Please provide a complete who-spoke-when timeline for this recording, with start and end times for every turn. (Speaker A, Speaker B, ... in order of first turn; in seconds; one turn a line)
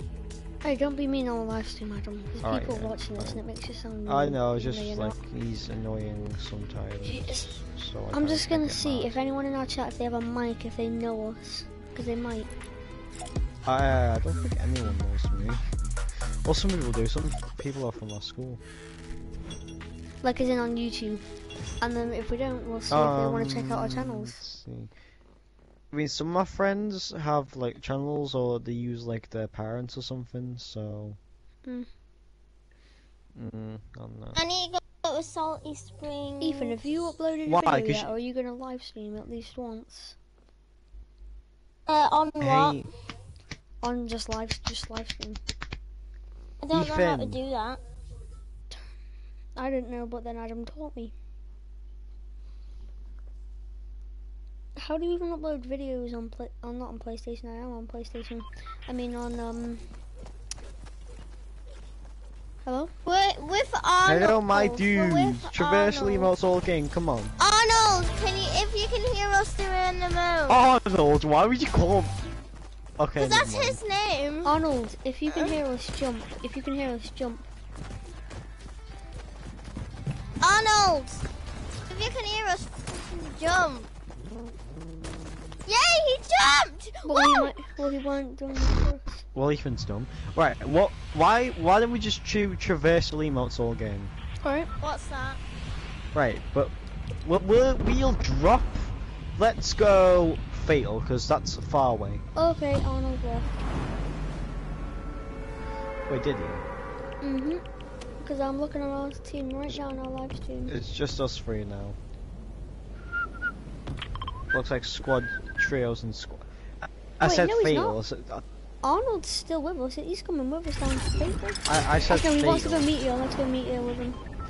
Speaker A: 0.6-5.2
Speaker B: 2.4-3.4
Speaker B: 4.1-9.2
Speaker A: 7.1-7.5
Speaker A: 8.1-12.5
Speaker B: 13.7-15.7
Speaker B: 16.4-18.6
Speaker A: 20.2-21.3
Speaker A: 21.8-24.4
Speaker B: 22.9-24.9
Speaker B: 25.9-31.2
Speaker B: 33.4-34.4
Speaker C: 34.4-36.8
Speaker A: 36.4-40.2
Speaker B: 37.5-38.1
Speaker C: 41.9-42.8
Speaker B: 42.4-42.9
Speaker A: 43.8-45.4
Speaker C: 46.6-47.8
Speaker B: 46.7-47.4
Speaker A: 49.6-51.1
Speaker A: 54.8-59.8
Speaker A: 62.7-62.9
Speaker C: 63.0-66.3
Speaker B: 64.0-67.3
Speaker C: 67.4-70.6
Speaker B: 70.5-72.1
Speaker B: 73.0-73.8
Speaker C: 73.2-74.5
Speaker A: 74.5-77.5
Speaker C: 80.4-81.2
Speaker C: 81.9-83.9
Speaker C: 85.7-87.5
Speaker A: 87.0-89.2
Speaker B: 89.3-94.1
Speaker A: 94.4-94.7
Speaker C: 94.8-95.4
Speaker B: 96.1-96.7
Speaker B: 97.2-102.2
Speaker A: 102.4-103.5
Speaker B: 106.1-106.6
Speaker A: 107.2-107.6
Speaker A: 108.2-110.8
Speaker B: 110.7-112.0
Speaker B: 114.5-118.4
Speaker A: 117.2-118.0
Speaker A: 118.8-124.2
Speaker B: 121.7-122.9